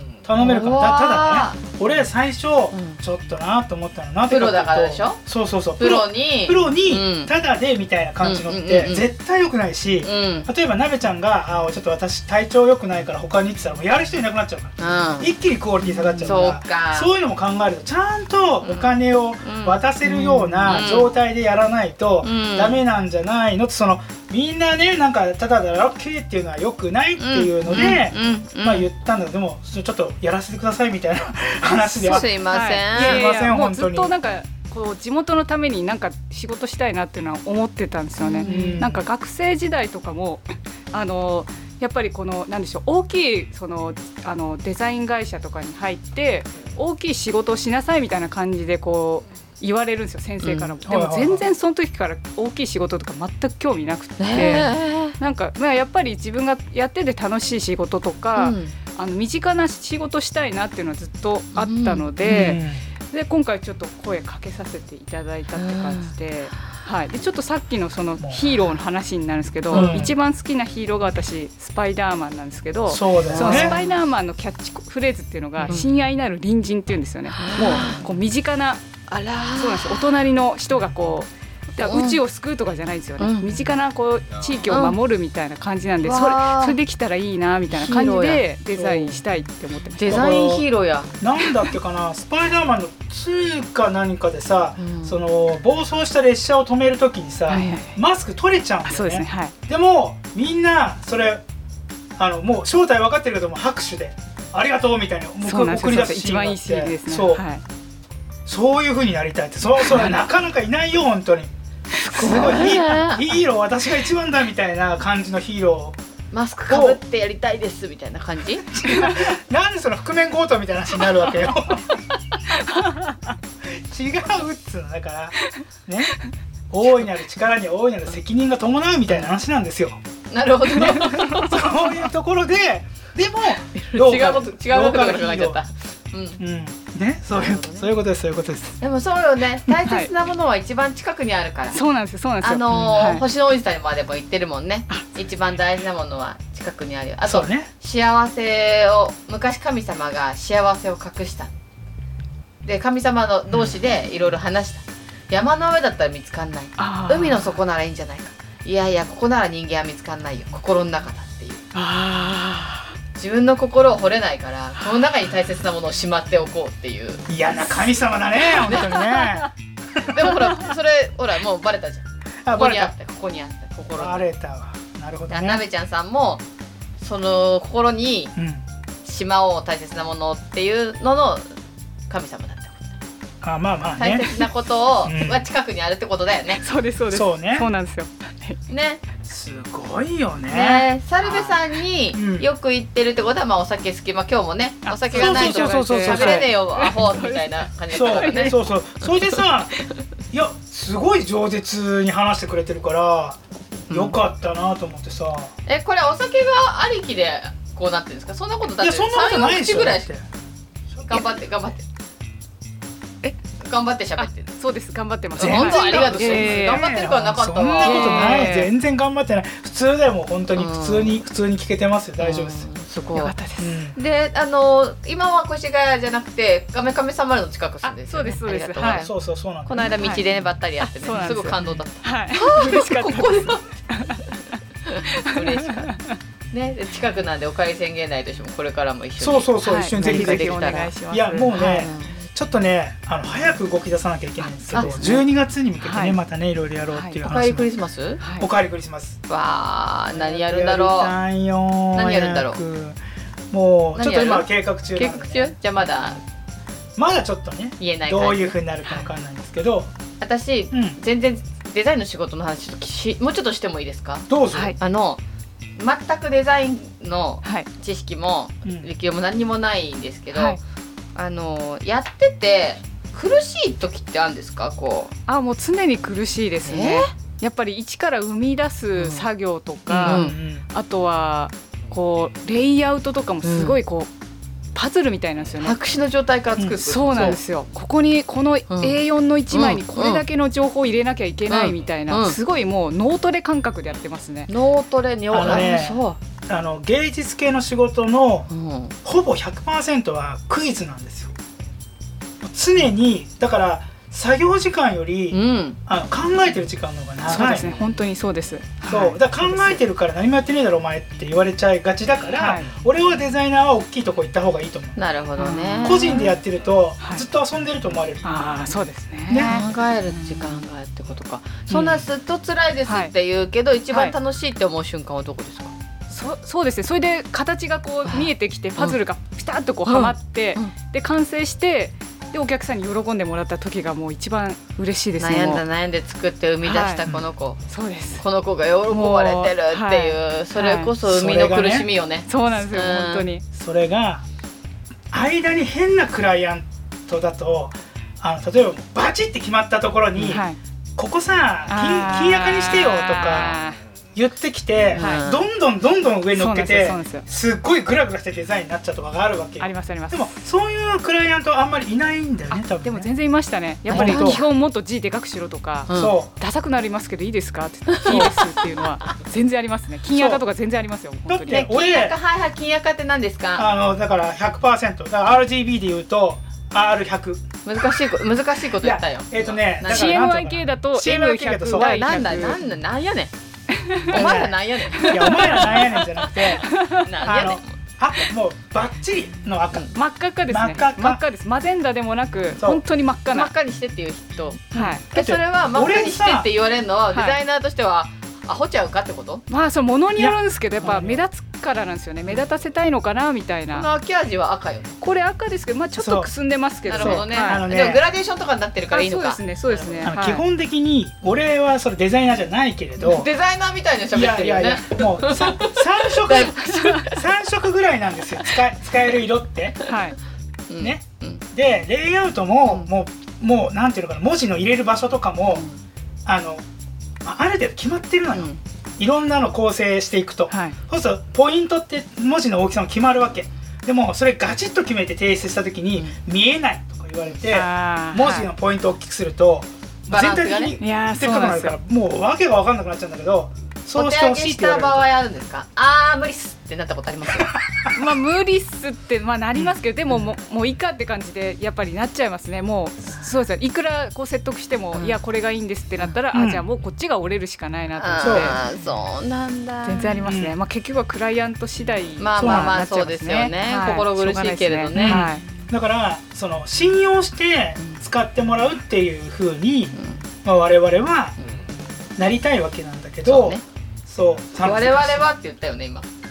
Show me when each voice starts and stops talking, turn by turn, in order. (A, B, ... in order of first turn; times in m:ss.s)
0:00.2-0:32.3 A
0:00.4-0:01.6 B
0:02.7-0:03.0 B
0:04.3-0:05.2 B
0:05.8-0:07.3 B
0:08.2-0:09.1 B
0:10.0-0:10.5 B
0:14.8-0:15.3 B
0:16.0-0:17.1 B
0:18.6-0:21.1 B
0:22.2-0:22.8 B
0:27.2-0:28.9 B
0:32.0-0:33.2 B
0:32.5-1:18.8 C
0:32.9-0:34.1 A
0:38.2-0:39.0 B
0:38.4-0:39.0 A
0:50.4-0:50.8 B
0:50.8-0:51.5 A
0:54.2-0:55.2 B
0:58.3-0:58.7 B
1:01.5-1:02.6 B
1:02.2-1:02.8 A
1:05.5-1:06.1 B
1:08.2-1:08.6 A
1:09.7-1:10.1 B
1:09.7-1:10.2 A
1:12.9-1:13.8 A
1:13.2-1:13.9 B
1:15.6-1:15.8 A
1:17.4-1:18.0 B
1:19.1-1:20.2 B
1:19.6-1:30.3 C
1:21.8-1:22.2 B
1:23.2-1:23.5 B
1:23.5-1:23.7 A
1:24.7-1:25.0 B
1:26.0-1:26.8 B
1:27.7-1:28.4 B
1:28.7-1:29.2 A
1:30.0-1:31.1 B
1:30.1-1:30.6 A
1:31.2-1:41.4 A
1:34.8-1:35.2 B
1:37.5-1:38.0 C
1:38.8-1:39.5 C
1:42.2-1:47.4 A
1:45.4-1:47.6 C
1:48.4-1:51.5 A
1:49.9-1:50.2 C
1:51.9-1:53.3 B
1:52.1-1:52.7 C
1:52.1-1:56.0 A
1:56.3-1:59.1 B
1:56.7-1:57.0 A
1:58.7-2:02.0 A
2:03.6-2:06.1 A
2:06.7-2:10.0 A
2:10.3-2:11.8 B
2:10.7-2:15.6 A
2:10.9-2:11.4 C
2:13.8-2:16.4 B
2:16.4-2:18.8 A
2:17.3-2:17.9 B
2:18.8-2:21.8 B
2:19.8-2:20.1 C
2:21.7-2:23.2 C
2:22.4-2:31.5 B
2:27.2-2:27.7 A
2:32.6-2:41.6 B
2:36.8-2:37.6 C
2:41.7-2:42.9 C
2:43.2-2:47.3 B
2:47.3-2:50.1 A
2:48.6-2:49.4 C
2:50.0-2:54.3 B
2:52.4-2:52.9 A
2:53.9-2:55.6 A
2:55.3-2:56.4 B
2:57.0-2:58.3 B
2:58.4-2:58.6 A
2:59.0-3:01.5 B
3:02.1-3:02.9 B
3:03.4-3:04.5 A
3:04.0-3:06.6 B
3:05.0-3:05.4 A
3:06.6-3:08.6 C
3:07.1-3:07.7 A
3:08.7-3:09.0 B
3:09.2-3:10.9 A
3:10.5-3:19.1 B
3:12.1-3:12.5 A
3:14.8-3:18.6 C
3:15.1-3:16.5 A
3:17.9-3:19.8 A
3:20.3-3:23.4 A
3:23.9-3:24.2 B
3:23.9-3:25.5 A
3:25.6-3:30.0 B
3:28.8-3:30.2 A
3:30.9-3:31.3 A
3:31.0-3:31.8 B
3:33.6-3:34.5 B
3:34.2-3:36.9 C
3:35.4-3:42.7 A
3:35.4-3:38.6 B
3:37.8-3:38.7 C
3:40.5-3:41.2 B
3:42.2-3:43.4 B
3:43.1-3:43.8 C
3:43.6-3:44.0 A
3:43.9-3:49.1 B
3:47.8-3:49.1 C
3:48.8-3:49.9 A
3:49.6-3:53.6 B
3:50.8-3:54.2 C
3:54.8-3:56.0 B
3:55.1-3:56.1 C
3:56.5-4:00.9 B
3:59.2-4:07.7 A
3:59.6-4:01.6 C
4:01.5-4:02.2 B
4:04.4-4:05.2 C
4:05.8-4:06.2 C
4:06.9-4:07.2 C
4:07.2-4:08.2 B
4:08.2-4:08.5 C
4:08.4-4:09.2 A
4:09.3-4:11.1 B
4:10.1-4:13.0 A
4:11.9-4:12.6 B
4:13.5-4:15.6 A
4:13.9-4:16.2 B
4:17.0-4:19.9 A
4:17.8-4:18.6 B
4:20.2-4:25.2 B
4:20.7-4:21.0 A
4:24.3-4:24.8 A
4:25.8-4:30.6 B
4:30.3-4:30.6 C
4:31.1-4:35.1 B
4:35.3-4:44.1 C
4:36.6-4:37.1 B
4:39.0-4:39.3 B
4:39.9-4:40.4 B
4:39.9-4:40.6 A
4:43.4-4:43.8 B
4:44.7-4:45.8 C
4:45.6-4:47.4 B
4:46.6-4:47.4 A
4:46.8-4:54.5 C
4:48.7-4:49.0 B
4:49.5-4:50.2 B
4:51.5-4:52.4 B
4:54.5-4:56.2 B
4:55.3-4:58.5 A
4:58.5-4:58.9 B
4:59.0-5:01.3 A
5:02.4-5:07.8 A
5:05.3-5:05.8 B
5:07.3-5:09.8 C
5:08.8-5:15.0 A
5:12.3-5:12.7 C
5:15.0-5:16.3 B
5:15.4-5:16.3 C
5:15.8-5:18.5 A
5:17.0-5:17.2 C
5:18.2-5:20.6 C
5:19.3-5:19.6 A
5:19.3-5:25.7 B
5:21.7-5:22.0 C
5:22.9-5:23.1 C
5:26.1-5:35.6 C
5:29.8-5:30.7 B
5:35.2-5:37.6 B
5:36.6-5:37.0 C
5:37.7-5:38.2 C
5:38.1-5:43.3 B
5:38.9-5:40.9 C
5:41.0-5:41.9 A
5:42.3-5:43.4 C
5:43.5-5:44.2 A
5:45.1-5:50.4 A
5:50.2-5:50.6 C
5:51.0-5:53.6 A
5:51.7-5:53.8 C
5:54.1-6:03.1 A
5:54.9-5:55.4 B
5:55.0-5:55.3 C
5:56.3-5:57.2 C
5:59.6-6:00.3 C
6:02.5-6:11.7 C
6:03.9-6:04.4 B
6:03.9-6:04.4 A
6:05.9-6:06.2 B
6:05.9-6:06.3 A
6:07.9-6:09.1 B
6:10.1-6:10.4 A
6:11.3-6:12.2 A
6:11.5-6:13.7 B
6:13.6-6:17.4 A
6:17.6-6:20.2 B
6:18.8-6:22.1 A
6:19.8-6:22.6 C
6:21.8-6:23.3 B
6:24.1-6:25.7 B
6:24.1-6:30.0 A
6:24.9-6:27.2 C
6:27.0-6:27.8 B
6:29.9-6:33.5 C
6:30.5-6:31.2 A
6:32.6-6:32.8 A
6:33.3-6:39.4 B
6:34.7-6:35.0 C
6:34.7-6:36.5 A
6:39.5-6:43.9 C
6:40.2-6:41.2 A
6:43.7-6:45.0 B
6:45.0-6:47.6 C
6:46.0-6:46.3 A
6:46.8-6:50.1 B
6:46.9-6:48.0 A
6:48.9-6:50.4 C
6:50.0-6:53.3 A
6:53.0-6:57.2 B
6:54.1-6:59.8 A
6:56.6-6:57.1 C
6:59.8-7:00.2 C
7:00.7-7:01.4 B
7:00.8-7:05.7 A
7:02.6-7:02.9 B
7:06.2-7:06.6 A
7:07.2-7:25.1 A
7:08.3-7:08.6 B
7:10.5-7:10.8 C
7:17.4-7:18.5 C
7:20.1-7:20.8 B
7:20.8-7:21.8 C
7:23.9-7:27.6 B
7:27.4-7:28.0 A
7:27.9-7:38.6 C
7:29.6-7:30.2 A
7:36.3-7:36.6 A
7:38.0-7:40.2 B
7:38.2-7:38.6 A
7:39.8-7:45.4 C
7:40.2-7:40.6 A
7:42.2-7:45.2 B
7:42.4-7:42.7 A
7:44.9-7:51.4 A
7:50.0-7:50.2 B
7:52.2-7:55.3 A
7:53.2-7:53.6 B
7:54.6-7:56.0 B